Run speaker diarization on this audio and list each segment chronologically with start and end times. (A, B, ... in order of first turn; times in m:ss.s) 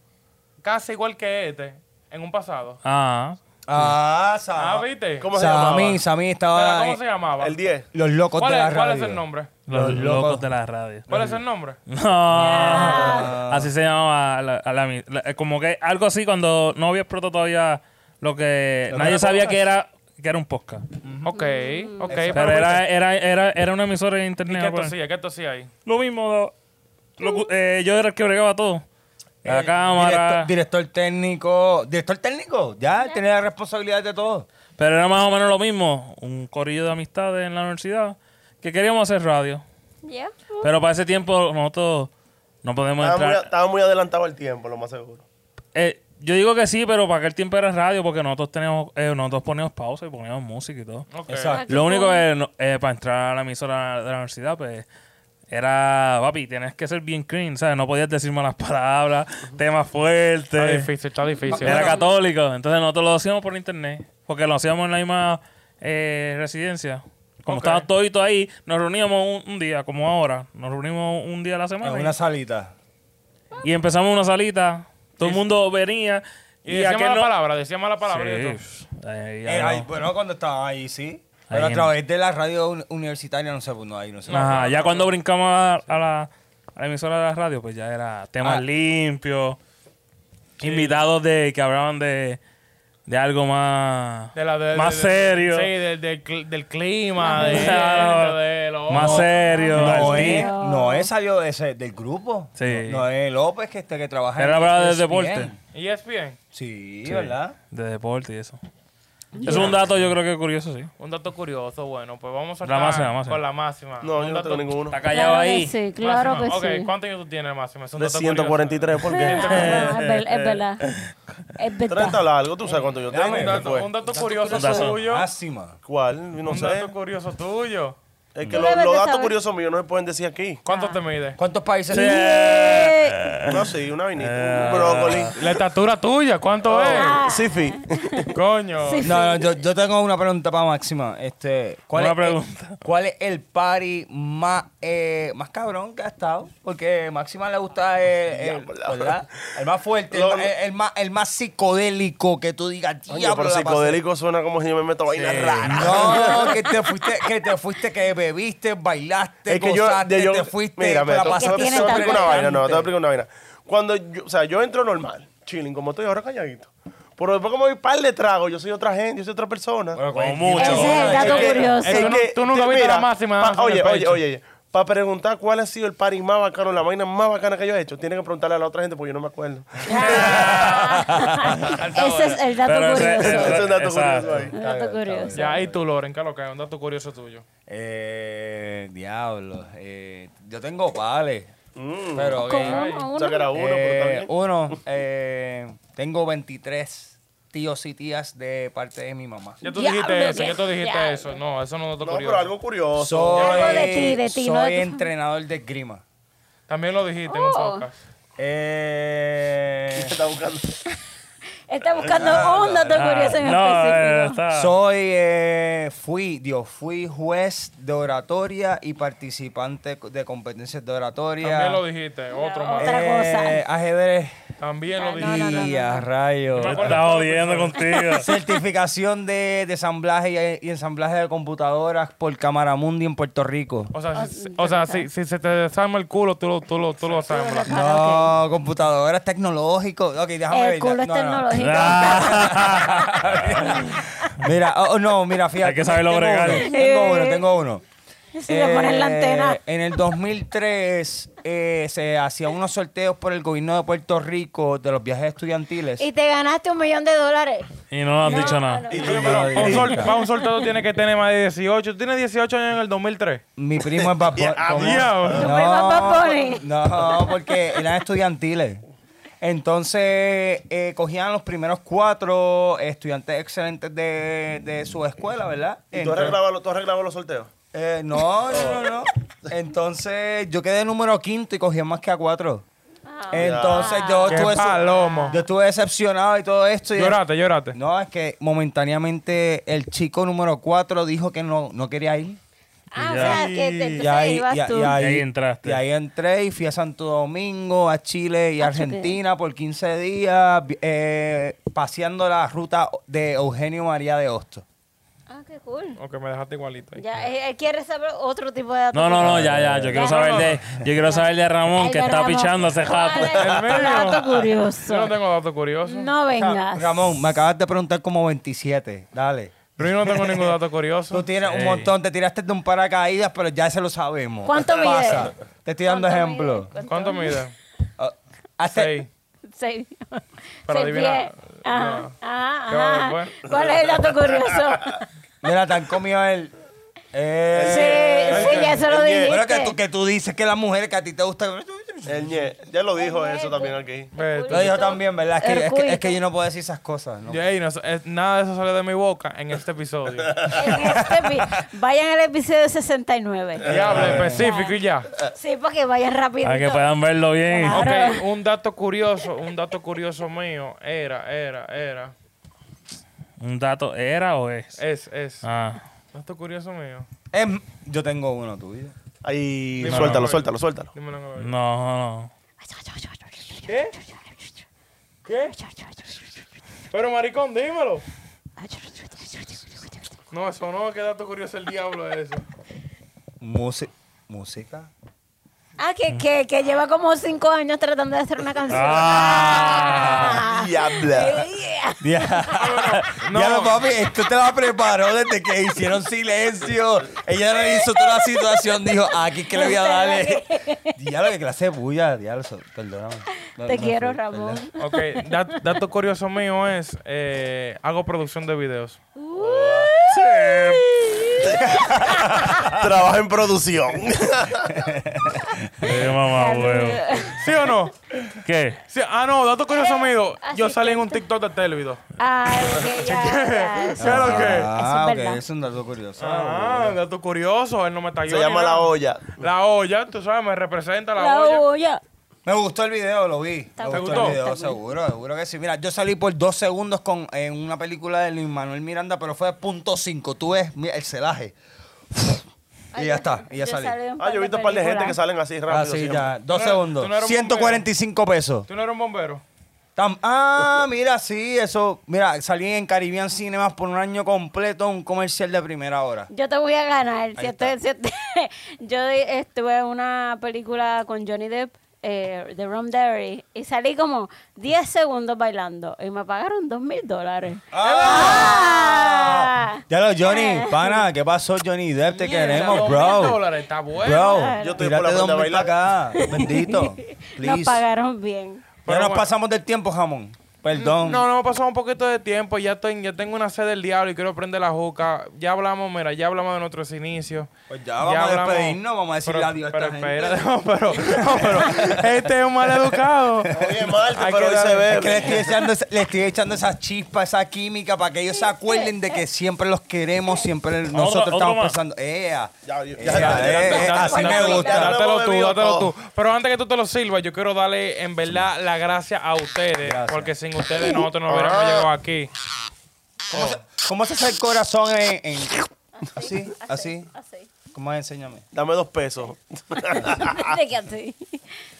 0:00.6-0:02.8 A
0:02.8-0:03.9 B
0:03.7-0:07.0 C
0:04.5-0:05.3 A
0:05.2-0:06.0 D
0:06.5-0:07.6 A
0:07.4-0:07.9 D
0:07.9-0:10.4 C
0:08.4-0:09.6 A
0:09.7-0:11.3 B
0:11.1-0:11.8 A
0:11.1-0:11.4 C
0:11.8-0:20.8 B
0:12.3-0:13.7 C
0:12.4-0:13.4 E
0:18.9-0:19.6 C
0:19.0-0:19.3 A
0:21.0-0:21.4 C
0:21.2-0:22.8 A
0:21.3-0:22.2 E
0:22.1-0:22.8 C
0:22.3-0:24.9 B
0:24.4-0:25.7 A
0:25.8-0:26.5 B
0:27.2-0:28.8 B
0:29.4-0:34.5 C
0:29.4-0:30.5 B
0:34.8-0:39.6 B
0:40.0-0:40.7 E
0:40.6-0:42.1 B
0:42.6-0:43.5 B
0:43.0-0:45.2 D
0:45.7-0:51.1 B
0:51.1-0:51.6 A
0:51.3-0:51.7 C
0:51.5-0:52.2 E
0:51.7-0:54.8 B
0:55.5-1:00.9 B
1:00.5-1:02.0 A
1:01.5-1:01.9 C
1:01.5-1:12.1 B
1:01.6-1:02.1 E
1:07.5-1:07.9 A
1:11.8-1:12.7 C
1:13.6-1:17.3 B
1:16.6-1:18.6 A
1:18.0-1:19.9 B
1:19.4-1:24.6 C
1:21.5-1:21.9 B
1:24.3-1:25.1 A
1:24.3-1:29.6 B
1:30.6-1:31.0 A
1:30.6-1:32.4 B
1:33.1-1:35.7 B
1:34.3-1:39.7 A
1:37.2-1:37.8 E
1:37.4-1:40.5 B
1:39.0-1:41.1 E
1:39.7-1:45.6 C
1:42.6-1:43.0 B
1:44.4-1:45.5 B
1:45.7-1:46.4 A
1:46.5-1:47.6 C
1:47.0-1:48.6 B
1:49.3-1:49.7 E
1:49.4-1:50.9 B
1:49.4-1:49.7 A
1:49.5-1:49.7 C
1:51.0-1:54.7 A
1:52.6-1:53.4 B
1:54.0-1:55.0 D
1:54.9-1:55.7 B
1:55.1-1:56.9 E
1:56.0-1:59.9 A
1:58.0-1:59.8 D
1:59.0-2:00.9 E
1:59.4-2:00.9 B
2:01.6-2:02.2 E
2:01.9-2:03.9 D
2:02.6-2:05.3 A
2:03.1-2:05.8 C
2:04.5-2:05.0 B
2:05.8-2:06.9 D
2:06.4-2:08.0 A
2:08.3-2:10.6 D
2:08.5-2:09.3 E
2:10.6-2:11.4 A
2:10.7-2:11.0 E
2:11.4-2:12.3 C
2:11.9-2:15.3 B
2:11.9-2:13.3 E
2:13.4-2:15.5 D
2:15.3-2:17.2 A
2:16.6-2:18.3 D
2:16.9-2:18.3 E
2:18.3-2:19.1 A
2:18.8-2:19.5 E
2:19.0-2:34.0 C
2:21.9-2:22.8 B
2:28.3-2:29.2 D
2:30.1-2:30.5 D
2:33.1-2:36.6 D
2:35.2-2:36.4 B
2:35.6-2:42.8 C
2:39.5-3:00.6 D
2:41.2-2:42.6 E
2:49.9-2:51.6 C
2:50.1-2:51.5 B
2:50.6-2:52.2 E
2:50.9-2:54.2 A
2:59.8-3:01.8 B
2:59.9-3:03.6 E
3:00.0-3:01.5 C
3:01.6-3:02.5 A
3:02.6-3:04.5 B
3:03.0-3:04.5 D
3:04.2-3:05.8 C
3:04.6-3:05.6 E
3:05.3-3:07.4 A
3:07.7-3:11.5 C
3:11.8-3:12.4 D
3:12.2-3:12.8 C
3:12.4-3:13.5 E
3:12.6-3:13.1 A
3:13.1-3:14.3 D
3:13.5-3:19.6 C
3:19.6-3:21.4 E
3:19.6-3:22.5 A
3:22.0-3:23.9 D
3:23.0-3:26.0 C
3:23.4-3:25.0 E
3:26.7-3:28.0 A
3:27.3-3:27.8 E
3:28.4-3:30.1 C
3:29.9-3:30.8 D
3:31.7-3:34.4 E
3:32.1-3:33.3 C
3:32.9-3:34.7 B
3:34.5-3:41.8 C
3:41.4-3:42.9 A
3:42.3-3:43.6 E
3:42.8-3:44.3 C
3:44.6-3:45.7 A
3:45.0-3:46.0 E
3:45.2-3:47.1 C
3:46.6-3:47.8 A
3:46.6-3:48.3 B
3:47.8-3:48.5 E
3:48.1-3:53.9 C
3:53.9-3:57.8 A
3:54.1-3:55.1 E
3:57.3-3:58.3 E
3:57.7-4:07.8 C
4:00.5-4:02.7 E
4:01.5-4:04.0 B
4:05.6-4:06.7 B
4:06.6-4:07.4 E
4:08.4-4:09.6 E
4:08.5-4:16.0 C
4:16.0-4:20.7 E
4:17.9-4:19.9 B
4:18.3-4:23.4 A
4:18.9-4:20.0 D
4:19.0-4:20.1 C
4:23.6-4:28.8 C
4:24.0-4:25.5 D
4:24.7-4:25.5 A
4:25.4-4:27.8 E
4:29.4-4:36.4 C
4:35.9-4:37.5 D
4:37.7-4:42.6 C
4:38.5-4:38.9 D
4:43.0-4:45.4 E
4:43.3-4:47.2 C
4:43.3-4:44.2 D
4:44.3-4:45.4 A
4:46.9-4:47.8 A
4:47.7-4:52.4 C
4:52.9-4:55.0 E
4:53.0-4:53.5 B
4:53.2-4:54.1 A
4:54.0-5:04.6 C
4:54.9-4:55.8 B
4:58.6-4:59.2 E
5:05.3-5:06.0 E
5:06.0-5:07.0 A
5:07.0-5:15.1 E
5:08.9-5:14.0 B
5:09.2-5:10.0 C
5:10.0-5:10.6 A
5:13.4-5:16.1 A
5:15.8-5:16.9 E
5:16.4-5:20.6 C
5:19.8-5:21.9 A
5:21.1-5:26.7 C
5:24.4-5:25.3 E
5:25.8-5:27.4 E
5:26.8-5:27.5 A
5:28.0-5:29.1 C
5:28.7-5:29.1 A
5:29.5-5:35.1 E
5:30.7-5:32.1 A
5:32.7-5:33.3 A
5:33.5-5:34.8 D
5:35.4-5:36.5 C
5:37.1-5:42.5 C
5:37.5-5:39.4 D
5:37.6-5:39.7 E
5:38.3-5:38.8 A
5:42.0-5:44.1 D
5:43.0-5:46.2 E
5:44.1-5:44.8 A
5:44.5-5:47.4 C
5:47.3-5:50.3 A
5:50.5-5:56.9 E
5:50.6-5:51.6 C
5:53.6-5:55.1 A
5:53.7-5:54.4 C
5:53.7-5:54.2 D
5:56.4-5:58.0 B
5:57.4-5:58.2 E
5:57.7-6:02.1 A
6:03.4-6:04.8 B
6:04.8-6:05.4 A
6:05.4-6:05.8 B
6:06.1-6:07.1 A
6:07.3-6:08.9 C
6:09.2-6:10.9 D
6:09.8-6:11.5 A
6:09.9-6:10.3 B
6:11.4-6:12.3 B
6:12.6-6:14.6 E
6:13.7-6:14.0 A
6:15.2-6:15.6 A
6:15.5-6:16.4 E
6:16.9-6:18.0 A
6:18.6-6:20.1 E
6:20.3-6:22.4 A
6:23.4-6:24.9 C
6:25.8-6:32.5 E
6:28.7-6:30.4 B
6:30.2-6:31.4 D
6:32.0-6:40.4 C
6:32.6-6:33.8 A
6:39.1-6:41.0 E
6:41.0-6:44.6 C
6:43.6-6:45.3 E
6:44.8-6:49.0 A
6:49.2-6:52.6 E
6:49.3-6:50.0 D
6:50.1-6:51.3 B
6:51.4-6:51.8 D
6:51.6-6:52.8 C
6:52.6-6:54.8 D
6:54.6-6:55.8 C
6:55.8-6:57.0 B
6:55.9-6:57.5 E
6:57.3-6:58.0 A
6:58.4-6:58.8 B
6:58.9-7:02.0 A
6:59.7-7:01.2 E
7:02.2-7:05.4 E
7:02.9-7:04.7 A
7:04.0-7:07.0 C
7:06.2-7:11.6 A
7:08.3-7:09.4 D
7:11.2-7:12.0 E
7:12.4-7:21.5 C
7:13.8-7:14.8 E
7:13.9-7:14.4 A
7:22.1-7:24.0 C
7:22.9-7:25.2 E
7:24.2-7:26.3 D
7:25.7-7:28.7 C
7:26.5-7:27.8 A
7:28.7-7:29.4 A
7:30.0-7:36.3 C
7:36.3-7:51.0 E
7:37.4-7:37.7 C
7:47.7-7:53.4 C
7:48.0-7:48.5 A
7:52.1-7:54.5 A
7:52.4-7:53.3 E
7:54.0-7:57.8 C
7:54.0-7:54.9 E
7:54.6-7:55.8 D
7:56.1-7:58.7 E
7:58.8-7:59.3 A
7:58.9-8:01.2 C
8:00.7-8:07.5 A
8:07.7-8:10.3 C
8:08.0-8:13.5 A
8:11.1-8:12.0 C
8:13.4-8:13.9 C
8:13.5-8:15.6 D
8:14.1-8:15.2 A
8:14.9-8:25.0 C
8:18.6-8:19.1 E
8:20.9-8:21.8 B
8:22.6-8:25.9 D
8:23.1-8:32.3 A
8:23.7-8:24.9 E
8:29.8-8:30.3 C
8:31.3-8:31.9 D
8:33.3-8:33.6 A
8:33.3-8:37.1 C
8:35.9-8:37.5 E
8:37.7-8:38.4 C
8:38.5-8:40.6 D
8:39.8-8:41.4 E